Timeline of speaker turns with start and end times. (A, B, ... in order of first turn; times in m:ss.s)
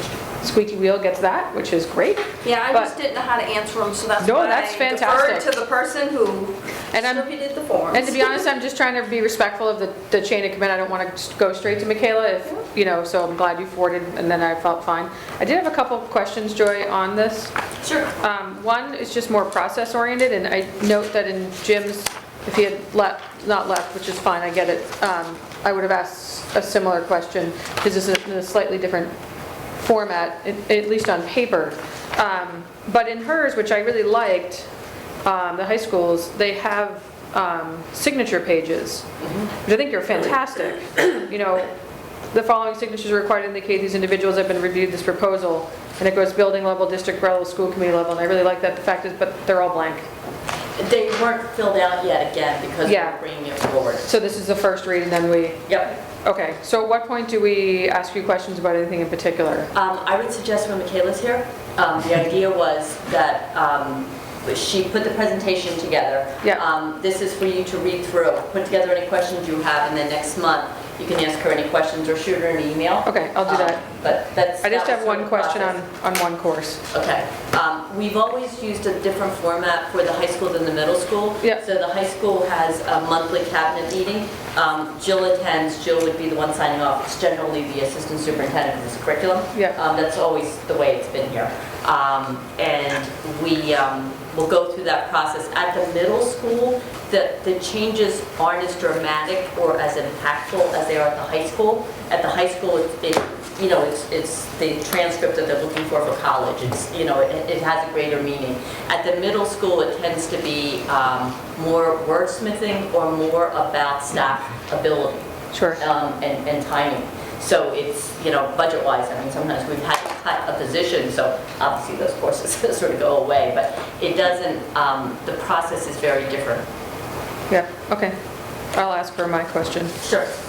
0:00.4-0:02.9 A
0:02.4-0:08.4 B
0:04.2-0:05.5 A
0:06.9-0:07.3 A
0:07.9-0:17.5 A
0:17.8-0:18.1 C
0:18.2-0:29.1 A
0:29.8-0:34.7 A
0:35.2-0:39.0 A
0:39.2-0:39.5 C
0:39.6-0:41.7 A
0:42.3-0:50.1 A
0:50.8-0:54.0 C
0:52.8-0:53.2 A
0:54.0-0:59.7 A
0:55.7-0:55.9 C
0:59.7-1:15.8 C
1:13.0-1:13.8 A
1:14.6-1:16.8 A
1:16.9-2:06.6 C
1:29.5-1:29.8 A
1:55.5-1:55.8 A
2:07.5-2:08.1 A
2:08.7-2:10.0 A
2:10.0-2:10.3 C